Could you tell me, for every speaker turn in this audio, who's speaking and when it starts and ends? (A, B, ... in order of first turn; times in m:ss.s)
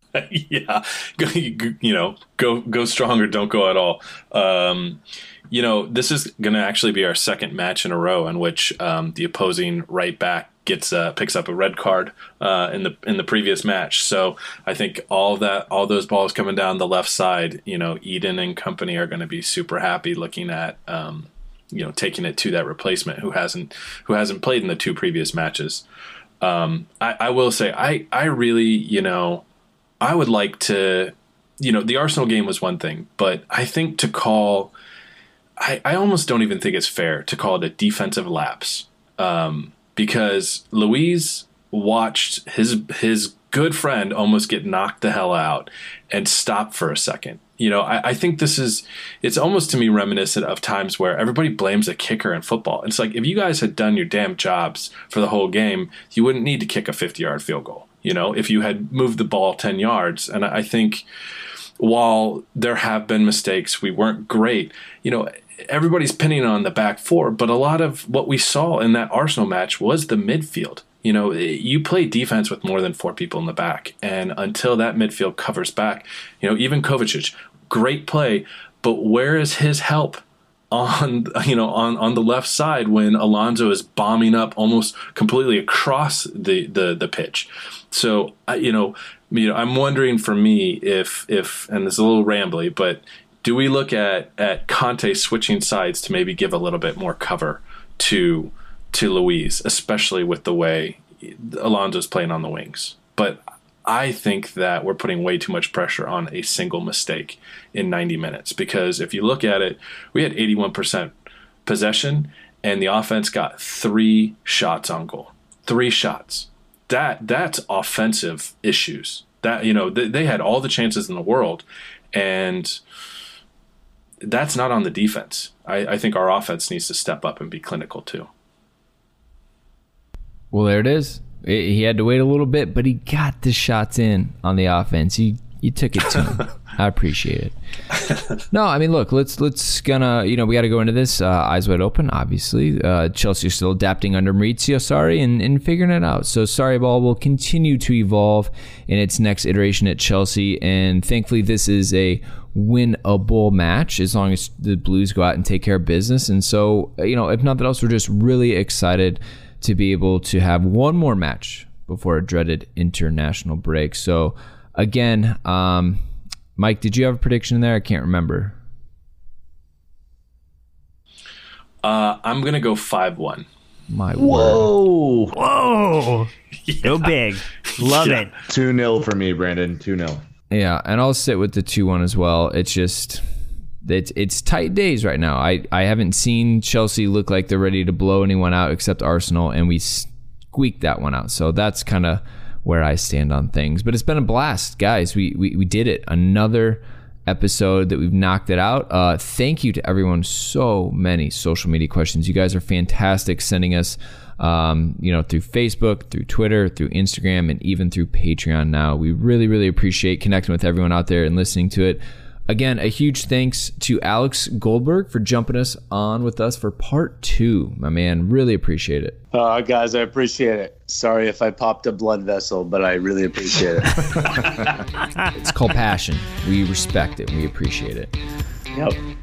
0:00.1-0:25.8 A
0:26.4-0:29.4 A
0:30.0-0:34.7 A
0:35.6-1:01.0 A
1:01.8-1:51.1 A
1:51.6-2:02.8 A
2:04.2-2:08.3 A
2:10.5-2:17.5 B
2:18.5-2:46.0 B
2:46.6-2:48.6 B
2:51.8-2:53.4 A
2:53.9-2:54.6 B
2:54.2-2:55.3 C
2:55.3-2:56.3 D
2:56.8-2:58.3 D
2:58.5-3:00.2 C
3:00.5-3:03.2 B
3:03.8-3:39.2 B
3:39.3-3:44.6 E
3:45.3-3:48.1 B